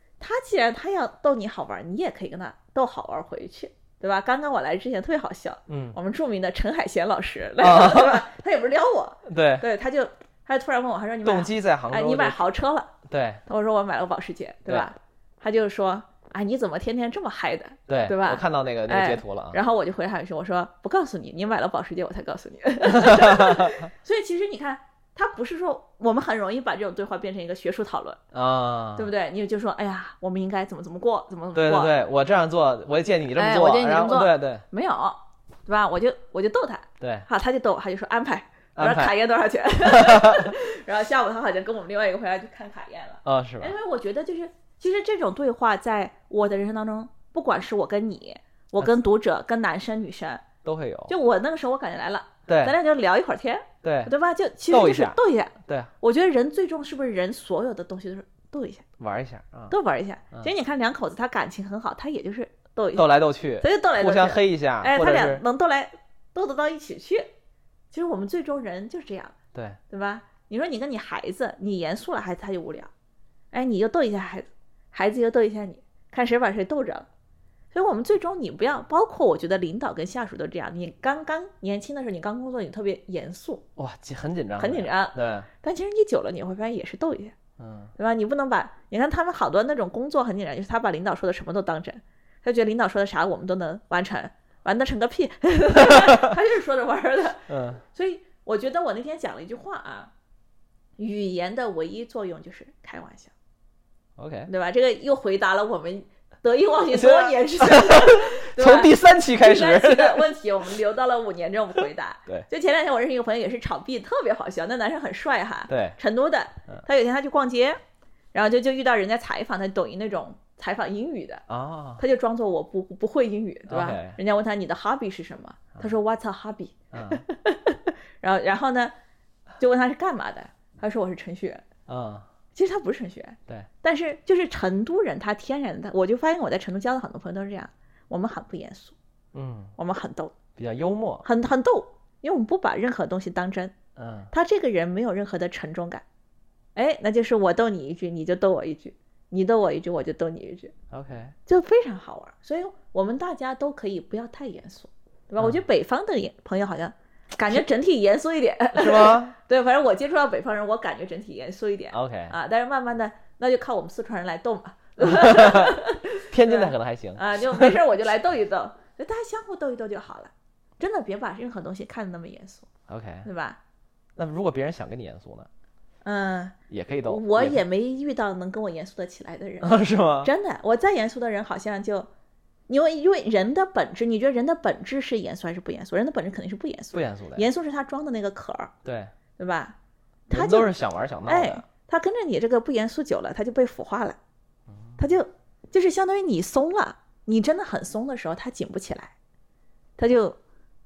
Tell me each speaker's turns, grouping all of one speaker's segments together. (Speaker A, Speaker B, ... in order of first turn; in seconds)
Speaker A: 0.2-12.9, 13.5-28.2, 29.0-31.9, 33.4-50.4, 51.1-58.9, 59.7-67.3, 67.9-69.4, 69.9-72.9, 73.5-77.1, 77.7-83.7, 84.6-87.3, 88.0-100.1, 101.0-103.3, 104.5-117.8, 118.3-121.4, 122.0-128.9, 129.6-131.6, 132.6-139.0, 139.8-140.3, 141.2-143.8, 144.3-146.1, 146.8-150.7, 151.5-172.7, 173.2-173.6, 176.0-182.1, 182.7-188.7, 189.4-189.8, 190.3-190.7, 191.2-194.2, 195.0-199.1, 200.0-200.4
Speaker B: 5.7-6.0, 7.6-8.2, 9.2-9.7, 11.2-12.4, 13.1-13.4, 17.9-19.6, 22.9-23.9, 28.3-29.1, 31.5-34.6, 37.0-37.3, 38.8-39.1, 39.8-40.5, 43.2-43.8, 50.6-51.1, 52.5-52.8, 53.8-54.1, 54.7-55.9, 59.0-59.8, 62.9-65.4, 69.5-69.8, 83.8-85.5, 87.6-87.9, 95.9-96.3, 97.5-97.8, 104.2-104.5, 106.9-110.3, 115.7-116.0, 121.5-122.0, 123.7-124.2, 126.9-127.2, 131.9-132.3, 139.3-139.8, 140.6-141.3, 144.0-144.3, 150.9-151.4, 158.8-159.4, 161.9-162.3, 165.0-167.8, 172.9-173.3, 174.2-175.5, 176.7-177.6, 179.6-180.3, 186.9-187.5, 188.8-189.1, 190.3-191.7, 194.7-195.0